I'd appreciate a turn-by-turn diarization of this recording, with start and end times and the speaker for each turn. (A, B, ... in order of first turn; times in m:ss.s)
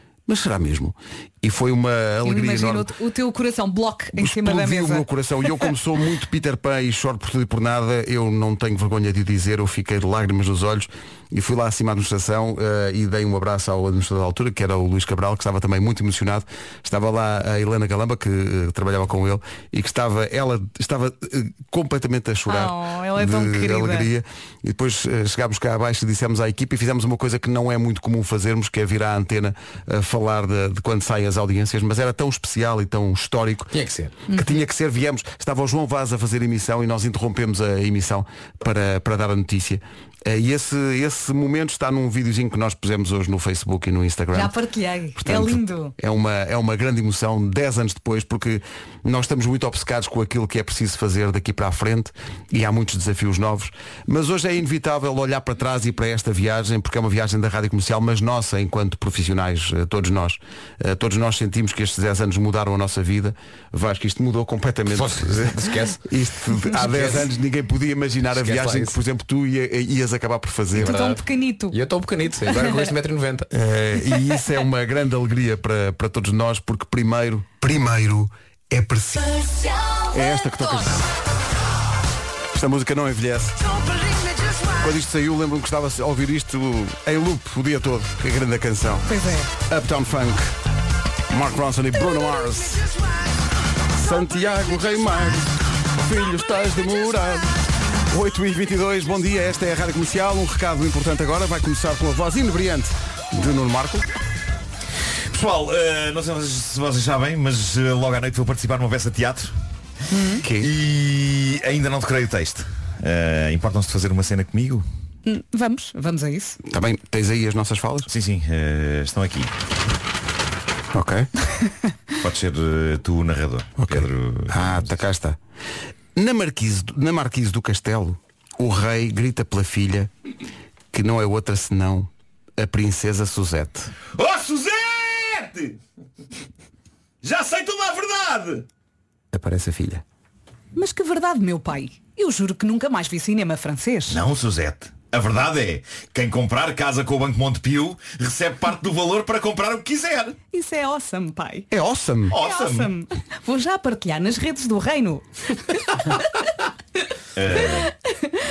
0:00.3-0:02.9 A
0:02.2-0:05.0 B
0:04.1-0:33.7 A
0:22.5-0:24.1 B
0:33.7-0:34.1 C
0:34.3-0:44.6 A
0:44.3-0:45.9 B
0:45.2-1:11.0 A
1:04.9-1:06.0 C
1:06.8-1:07.3 C
1:08.3-1:09.0 C
1:10.8-1:11.8 B
1:10.8-1:13.5 C
1:13.5-1:19.4 A
1:20.1-1:21.1 A
1:22.5-1:23.6 A
1:24.8-1:30.5 A
1:29.1-1:29.5 B
1:31.3-1:32.8 A
1:33.9-1:37.6 A
1:38.1-1:44.1 A
1:45.3-1:49.5 D
1:50.1-1:50.4 B
1:50.4-1:50.7 A
1:50.6-1:54.8 D
1:55.3-1:56.6 B
1:56.6-1:58.1 A
1:58.1-1:59.5 D
2:00.9-2:01.3 A
2:02.2-2:04.9 D
2:03.8-2:05.4 A
2:06.2-2:10.1 A
2:10.9-2:13.9 A
2:14.2-2:15.8 D
2:17.2-2:18.7 D
2:19.3-2:20.0 A
2:20.8-2:24.2 B
2:24.1-2:30.4 D
2:30.5-2:31.7 B
2:31.7-2:32.4 A
2:32.3-2:32.9 D
2:32.4-2:36.2 B
2:37.4-2:37.9 D